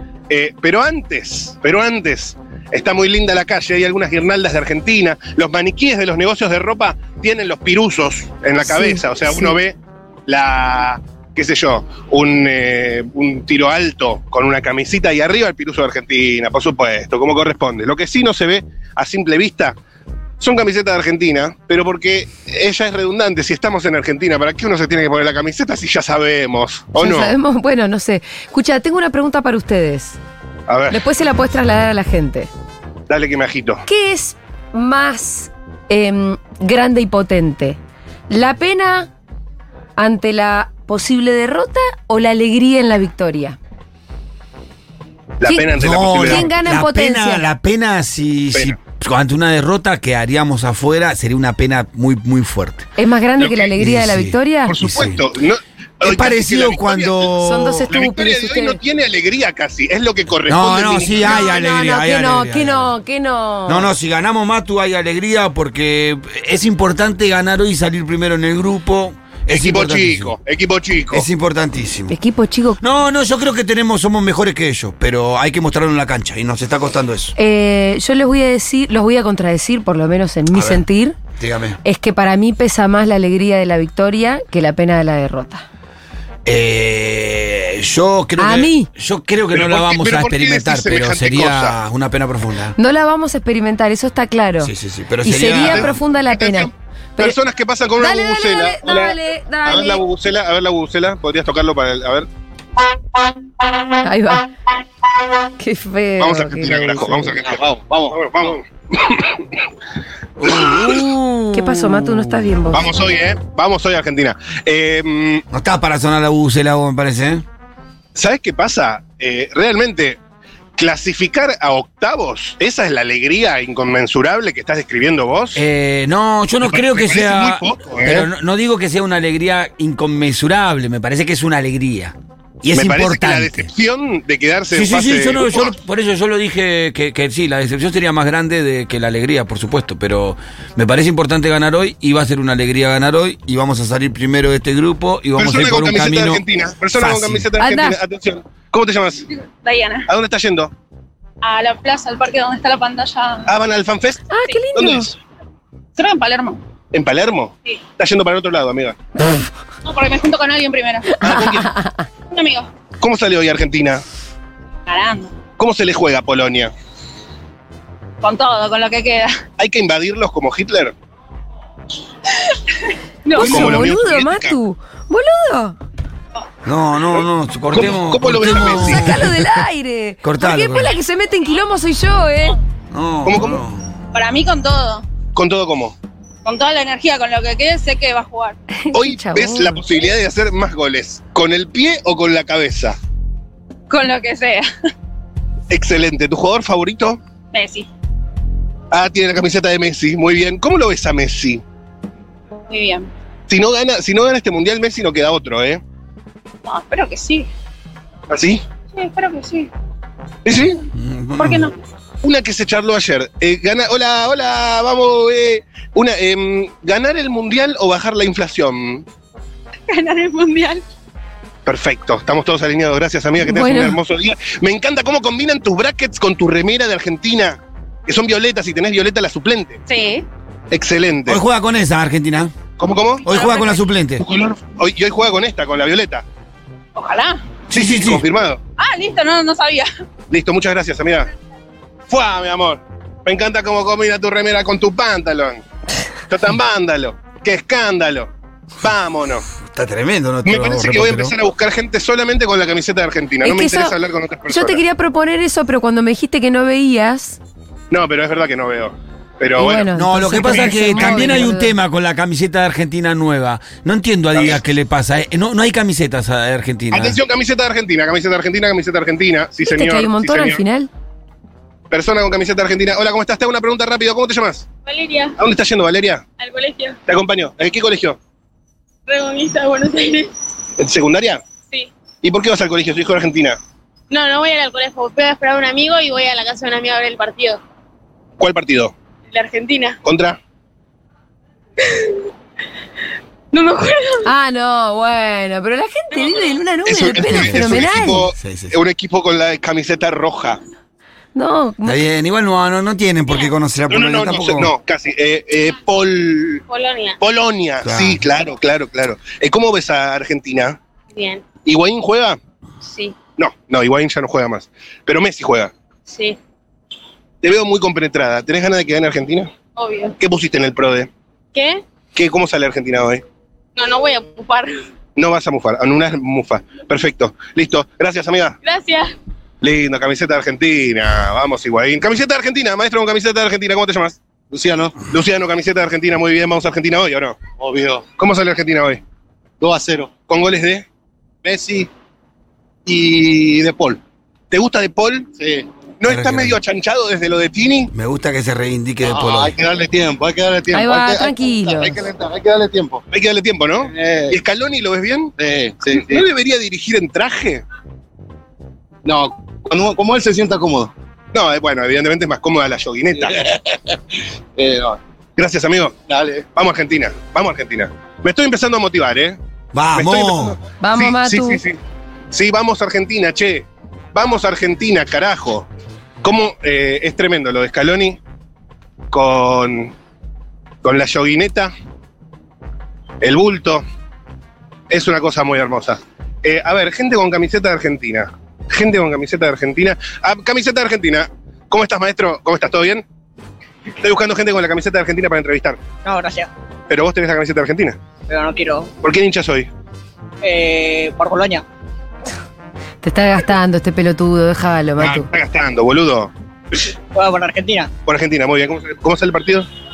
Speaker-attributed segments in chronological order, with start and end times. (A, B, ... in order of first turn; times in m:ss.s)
0:00.3-0:19.8 A
0:08.6-0:09.6 B
0:20.4-0:27.3 A
0:27.0-0:30.2 B
0:30.7-0:31.0 A
0:30.9-0:32.5 B
0:33.1-0:33.8 A
0:33.9-0:37.8 B
0:38.3-0:39.1 B
0:40.0-0:43.6 B
0:45.4-0:46.5 A
0:45.4-0:47.4 B
0:45.8-0:52.9 C
0:53.0-0:54.7 B
0:53.4-0:53.7 A
0:53.8-0:55.2 C
0:54.7-0:57.3 A
0:56.0-0:57.9 C
0:57.4-0:58.8 B
0:57.9-1:01.6 A
1:00.5-1:02.9 C
1:01.2-1:03.9 B
1:03.6-1:10.3 C
1:09.5-1:11.3 A
1:11.1-1:12.2 C
1:12.1-1:12.8 B
1:12.8-1:17.3 C
1:17.4-1:21.2 B
1:20.5-1:20.8 C
1:21.4-1:21.8 C
1:21.8-1:25.6 B
1:26.4-1:32.8 C
1:28.4-1:28.9 B
1:29.5-1:31.8 A
1:32.8-1:34.7 B
1:34.6-1:36.0 C
1:35.2-1:37.4 B
1:35.6-1:42.3 A
1:38.0-1:40.0 B
1:44.0-1:44.5 B
1:45.6-1:47.3 B
1:46.2-1:49.5 A
1:47.4-1:48.2 D
1:50.4-1:52.4 C
1:50.4-1:51.0 A
1:51.5-1:52.9 B
1:52.7-1:55.4 A
1:55.5-1:57.4 C
1:58.1-2:00.2 A
2:00.8-2:05.6 A
2:05.5-2:13.7 C
2:06.6-2:08.3 A
2:12.7-2:15.7 A
2:14.7-2:26.4 C
2:25.4-2:29.2 A
2:27.0-2:27.5 C
2:27.6-2:28.0 B
2:29.6-2:30.1 E
2:30.1-2:30.7 A
2:31.4-2:33.5 E
2:33.5-2:35.1 A
2:34.3-2:35.1 B
2:36.0-2:36.6 E
2:36.9-2:39.0 A
2:39.8-2:41.4 E
2:41.2-2:41.7 A
2:42.3-2:42.7 E
2:43.0-2:44.0 A
2:44.8-2:45.3 E
2:45.6-2:46.7 A
2:48.2-2:49.4 E
2:49.6-2:50.9 A
2:53.2-2:53.7 E
2:53.3-2:55.8 B
2:53.4-2:54.6 A
2:56.6-2:59.6 C
2:57.7-2:59.2 A
2:58.5-3:02.6 B
3:00.2-3:01.0 C
3:02.9-3:03.9 C
3:03.2-3:03.6 A
3:04.1-3:05.0 E
3:05.3-3:06.0 A
3:06.4-3:08.6 E
3:08.8-3:09.8 B
3:08.9-3:13.0 A
3:13.9-3:14.7 E
3:15.7-3:17.2 A
3:17.5-3:17.9 E
3:18.9-3:21.6 A
3:22.7-3:23.1 E
3:23.5-3:25.8 A
3:26.6-3:27.5 E
3:28.3-3:28.6 A
3:28.9-3:29.7 E
3:30.4-3:30.8 A
3:30.9-3:31.7 C
3:31.4-3:31.7 E
3:32.2-3:39.0 A
3:39.9-3:40.8 E
3:41.6-3:49.8 A
3:43.4-3:44.0 B
3:49.9-3:50.2 E
3:50.7-3:51.4 A
3:51.3-3:52.5 C
3:52.8-3:53.3 A
3:53.2-3:54.2 C
3:53.3-3:53.8 E
3:54.2-3:56.2 A
3:56.9-3:57.4 E
3:57.7-3:58.2 C
3:57.7-3:58.6 A
3:58.8-3:59.9 E
4:00.3-4:01.3 A
4:02.1-4:05.6 A
4:06.3-4:09.5 A
4:09.7-4:11.3 C
4:10.4-4:14.8 A
4:13.4-4:13.9 B
4:14.5-4:17.4 B
4:17.9-4:19.9 A
4:19.5-4:21.7 B
4:19.9-4:27.2 C
4:20.4-4:21.5 A
4:24.3-4:24.6 A
4:26.9-4:30.6 A
4:29.6-4:30.9 B
4:31.9-4:34.6 A
4:34.8-4:35.4 E
4:35.4-4:36.2 A
4:36.4-4:37.0 E
4:37.1-4:38.2 A
4:39.1-4:40.3 E
4:40.8-4:41.4 A
4:42.2-4:43.6 A
4:44.1-4:47.6 E
4:48.4-4:48.9 A
4:49.3-4:50.0 E
4:50.0-4:50.4 A
4:51.8-4:52.2 E
4:53.5-4:54.3 E
4:54.2-4:58.2 B
4:56.8-5:00.6 A
4:57.2-4:58.8 C
5:01.3-5:02.0 B
5:01.8-5:04.7 C
5:03.9-5:06.6 A
5:06.7-5:07.2 E
5:07.2-5:10.8 A
5:07.8-5:08.2 C
5:11.1-5:11.4 E
5:11.6-5:12.4 A
5:12.8-5:13.1 E
5:13.4-5:15.7 A
5:16.1-5:16.4 E
5:17.4-5:19.5 A
5:19.8-5:20.1 E
5:20.2-5:21.1 A
5:21.5-5:21.8 E
5:22.1-5:23.2 A
5:23.8-5:24.8 E
5:25.2-5:28.6 A
5:28.6-5:29.1 E
5:29.6-5:34.2 A
5:34.5-5:35.0 D
5:35.1-5:37.4 A
5:37.6-5:38.1 D
5:38.2-5:39.0 A
5:39.6-5:40.2 D
5:40.3-5:40.8 A
5:41.4-5:41.9 D
5:42.8-5:44.0 D
5:44.5-5:45.3 A
5:45.4-5:45.6 D
5:46.0-5:47.9 A
5:46.1-5:46.6 C
5:47.9-5:49.6 C
5:49.0-5:53.0 D
5:50.7-5:52.0 B
5:53.1-5:55.3 A
5:53.8-5:54.4 D
5:55.4-5:56.3 D
5:55.9-5:57.6 A
5:59.0-6:00.9 D
6:01.3-6:03.4 A
6:03.4-6:03.9 D
6:04.6-6:05.0 D
6:05.4-6:06.0 A
6:06.1-6:06.4 D
6:06.5-6:09.4 A
6:09.7-6:10.6 C
6:09.9-6:11.8 A
6:10.8-6:11.6 B
6:12.3-6:15.7 A
6:16.2-6:18.2 A
6:19.1-6:19.9 A
6:20.8-6:21.7 A
6:23.2-6:23.8 A
6:24.9-6:33.0 A
6:34.0-6:35.8 A
6:36.1-6:36.5 F
6:36.9-6:38.0 A
6:38.3-6:38.9 F
6:39.0-6:39.7 A
6:40.4-6:41.6 F
6:43.0-6:45.3 B
6:45.0-6:46.3 A
6:47.2-6:47.9 F
6:48.0-6:49.7 A